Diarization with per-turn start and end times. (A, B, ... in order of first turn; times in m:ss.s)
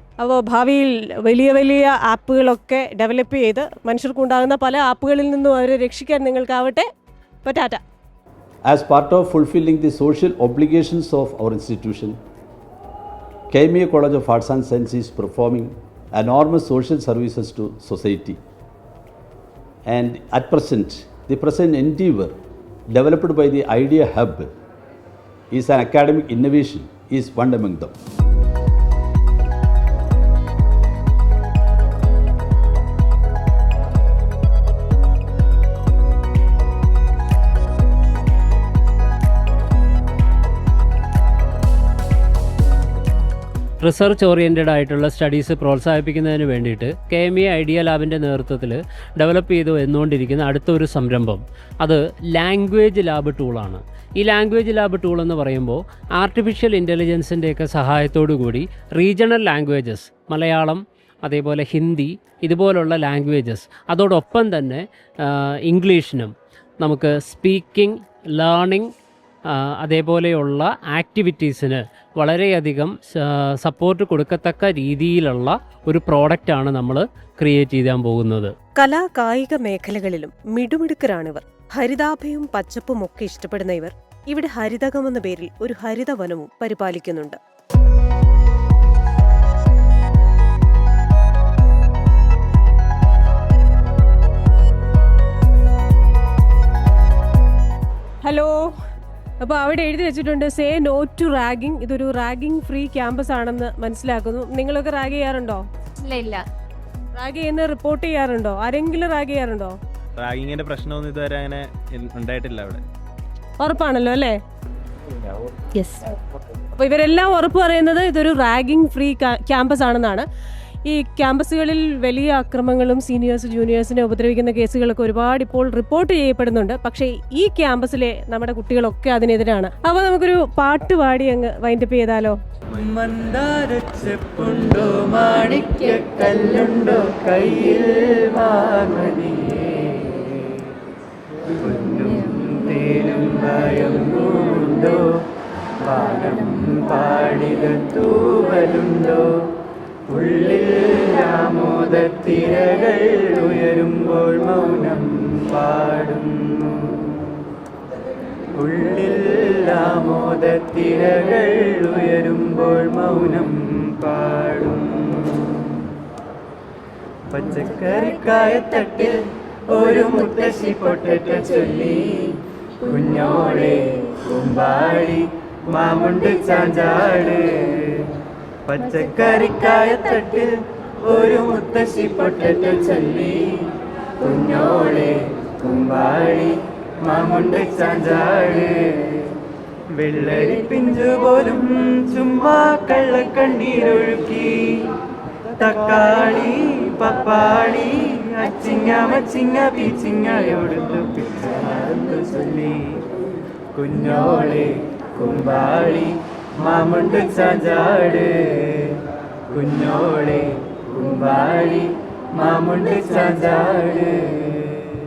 0:00.2-0:06.8 A
0:07.4-0:07.8 A
0:08.6-0:12.2 B
0:13.5-0:18.4 B
0:19.8-0:22.3 B
0:22.9-0:24.5 B
0:25.5-0:27.9 B
0:43.8-1:08.9 C
0:47.0-0:47.3 D
0:54.2-0:54.5 D
0:56.2-0:56.5 D
0:59.0-0:59.4 D
1:00.2-1:00.5 D
1:01.3-1:02.5 D
1:09.8-1:18.5 C
1:10.8-1:11.5 D
1:18.8-1:27.4 A
1:38.2-1:38.7 A
1:39.4-1:45.6 A
1:46.0-1:46.4 D
1:47.2-1:49.7 A
1:50.2-1:52.8 E
1:53.6-1:54.4 A
1:56.8-2:00.2 A
2:00.9-2:12.4 A
2:12.7-2:20.4 F
2:21.5-2:25.1 F
2:25.8-2:29.4 F
2:30.1-2:37.2 F
2:38.5-2:45.5 F
2:47.3-2:58.1 F
2:58.7-3:09.2 F
3:09.9-3:14.9 F
3:15.6-3:23.0 F
3:23.7-3:34.7 F